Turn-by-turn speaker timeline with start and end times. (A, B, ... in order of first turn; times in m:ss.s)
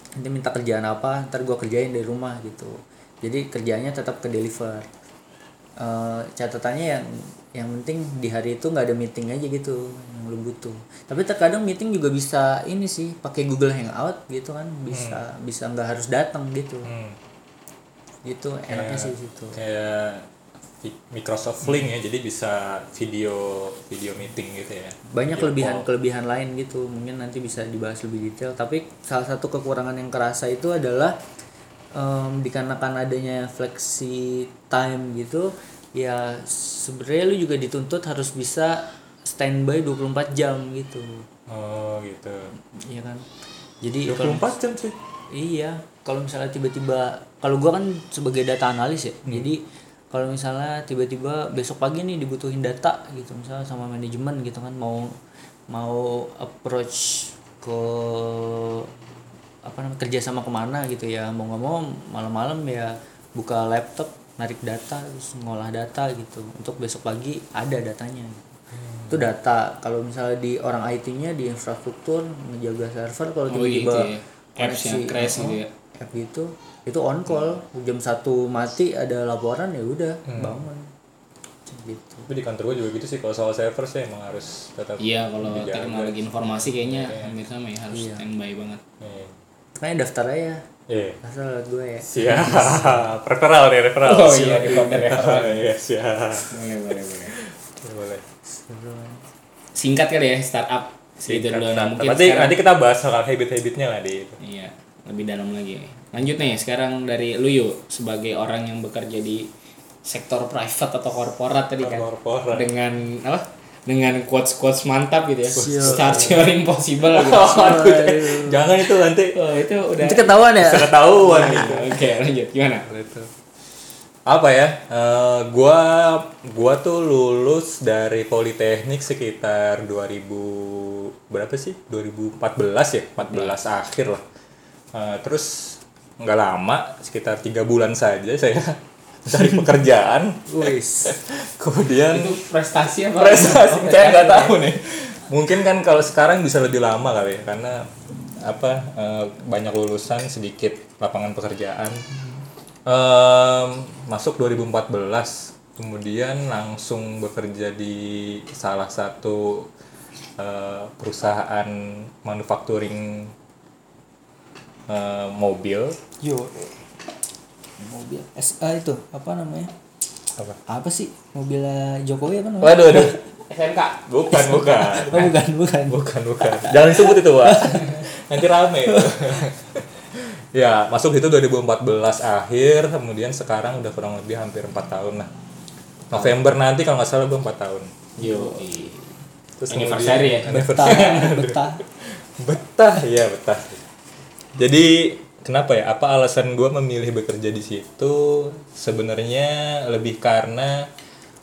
0:00.2-0:04.9 A
0:05.8-0:16.9 A
0:14.9-0:15.2 B
0:16.8-0:17.2 B
0:18.2-0:19.6 A
0:18.7-0:20.3 B
0:20.8-0:25.8 B
0:25.1-0:31.2 A
0:31.9-0:41.3 A
0:41.5-0:42.5 B
0:42.6-0:43.3 A
0:43.8-0:44.5 A
0:44.1-0:45.0 B
0:45.3-0:55.2 A
0:55.7-0:58.9 A
0:59.6-1:08.4 A
1:08.8-1:09.2 B
1:09.1-1:20.9 A
1:13.5-1:15.7 C
1:20.3-1:20.6 B
1:21.7-1:22.3 A
1:22.3-1:27.3 B
1:25.0-1:28.8 C
1:27.9-1:28.2 A
1:29.0-1:29.3 B
1:29.8-1:30.6 A
1:30.9-1:31.2 B
1:31.2-1:33.1 A
1:32.1-1:36.6 B
1:34.0-1:35.6 C
1:36.5-1:37.3 C
1:37.4-1:38.2 B
1:38.5-1:39.2 A
1:39.8-1:42.6 C
1:41.3-1:44.4 B
1:44.4-1:49.5 C
1:50.1-1:57.9 C
1:51.8-1:52.7 B
1:55.6-1:56.5 A
1:55.6-1:56.5 B
1:57.1-1:59.4 B
1:57.3-1:58.8 A
1:59.4-2:00.3 C
2:00.0-2:01.9 A
2:00.6-2:01.9 B
2:01.2-2:02.8 C
2:02.9-2:03.3 B
2:04.3-2:14.2 B
2:13.2-2:13.6 C
2:14.9-2:22.4 B
2:20.5-2:21.2 A
2:22.1-2:24.6 C
2:23.1-2:27.9 B
2:28.4-2:32.0 B
2:32.9-2:39.7 B
2:40.4-2:43.3 B
2:44.9-2:46.0 B
2:46.2-2:46.7 A
2:47.8-2:49.7 A
2:50.7-2:53.2 A
2:52.6-2:53.2 B
2:53.5-2:54.0 C
2:54.1-2:55.3 B
2:54.3-2:58.0 A
2:55.9-3:05.3 B
2:58.9-2:59.3 A
3:06.1-3:08.0 B
3:08.2-3:09.0 C
3:08.2-3:08.6 A
3:09.6-3:13.8 B
3:09.7-3:11.3 C
3:10.5-3:11.8 A
3:14.6-3:20.9 B